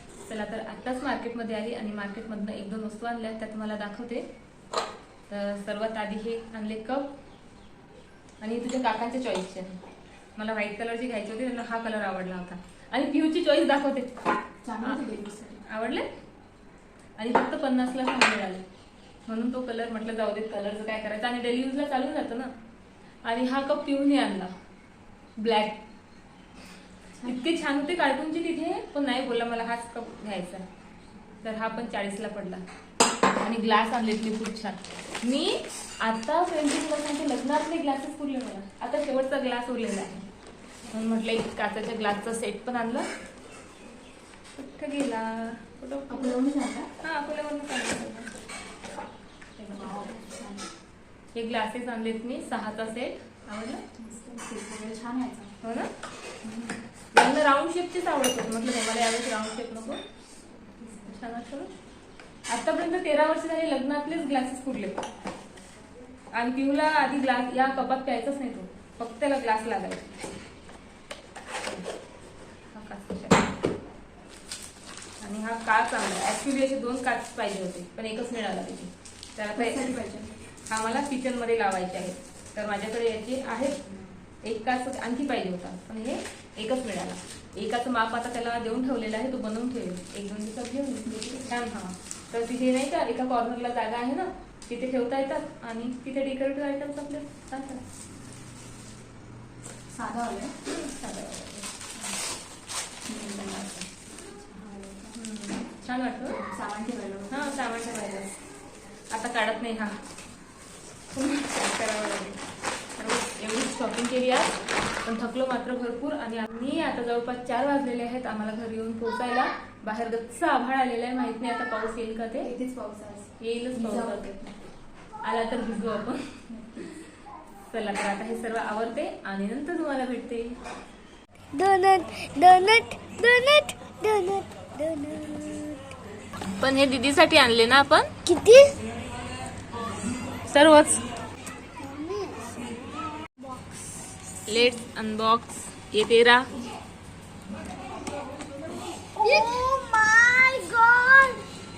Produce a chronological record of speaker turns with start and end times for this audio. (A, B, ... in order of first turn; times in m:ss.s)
0:00.3-0:04.3 A
0:05.3-0:07.1 A
0:08.4-0:09.7 A
0:10.4-0:14.2 A
0:14.6-0:15.6 B
0:14.8-0:15.1 A
0:15.6-0:16.1 A
0:17.2-0:18.6 A
0:19.3-0:22.5 A
0:23.2-0:24.5 A
0:25.4-0:25.8 A
0:27.2-0:30.6 A
0:31.4-0:32.6 A
0:33.4-0:40.2 A
0:40.9-0:43.1 A
0:44.6-0:46.4 A
0:46.1-0:46.9 B
0:47.0-0:48.3 A
0:49.6-0:50.7 B
0:51.4-0:53.8 A
0:54.0-0:55.5 B
0:55.6-0:55.9 A
0:56.4-0:56.7 B
0:57.1-1:00.0 A
1:00.9-1:01.7 A
1:02.5-1:05.0 A
1:06.3-1:10.2 A
1:12.7-1:13.6 A
1:15.2-1:20.0 A
1:19.6-1:20.3 B
1:20.7-1:23.8 A
1:24.4-1:37.8 A
1:39.9-1:40.6 B
1:40.7-1:41.7 A
1:43.1-1:43.6 B
1:43.2-1:43.9 A
1:44.4-1:45.2 B
1:45.1-1:46.4 A
1:46.3-1:47.6 B
1:47.3-1:48.4 A
1:49.1-1:50.0 A
1:51.1-1:52.4 A
1:53.0-2:02.5 A
2:02.4-2:04.5 B
2:03.4-2:04.4 A
2:05.2-2:06.2 A
2:07.7-2:10.5 A
2:11.5-2:15.8 C
2:16.6-2:18.1 A
2:18.2-2:18.8 C
2:20.5-2:21.0 A
2:21.8-2:24.2 C
2:24.5-2:26.5 A
2:29.2-2:31.4 C